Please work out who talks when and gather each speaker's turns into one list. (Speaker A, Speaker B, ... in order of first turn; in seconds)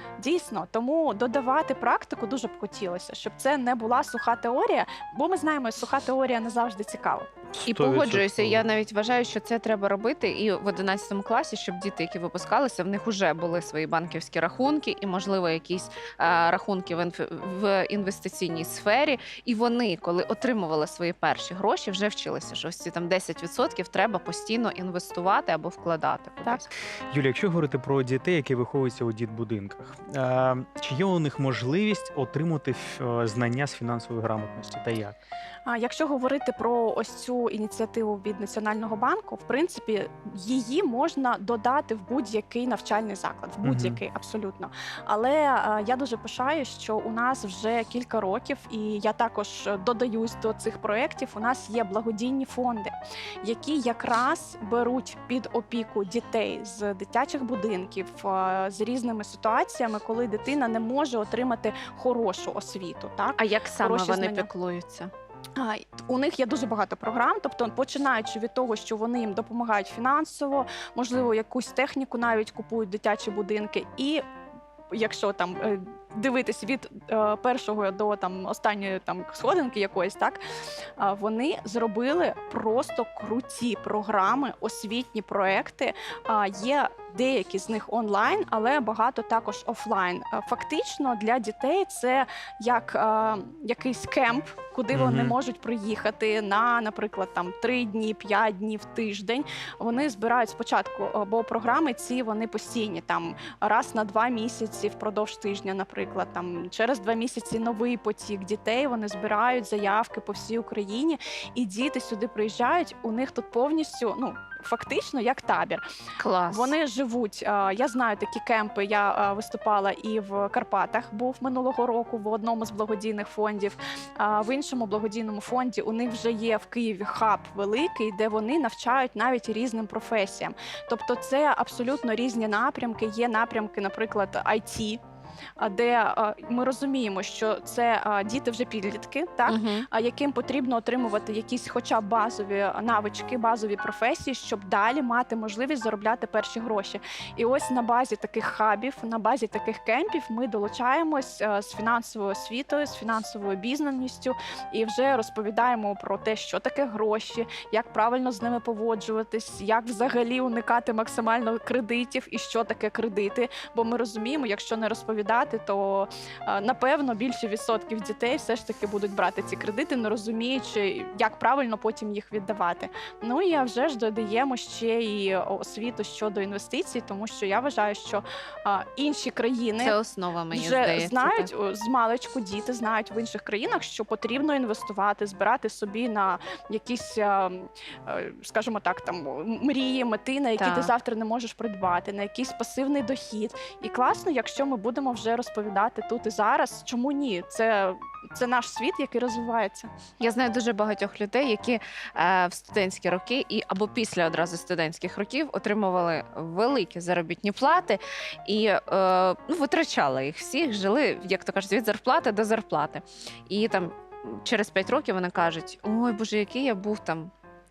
Speaker A: 0.2-7.3, 35.7-64.5, 65.6-74.2, 74.9-80.4, 81.0-115.8, 116.5-135.0, 135.6-180.0, 180.5-199.9
Speaker B: 7.5-8.6, 27.1-35.2, 43.6-44.0, 94.9-95.4
Speaker C: 7.7-26.7, 63.4-65.1, 116.2-116.7, 139.5-139.8, 179.8-181.5, 190.6-190.9, 200.2-217.3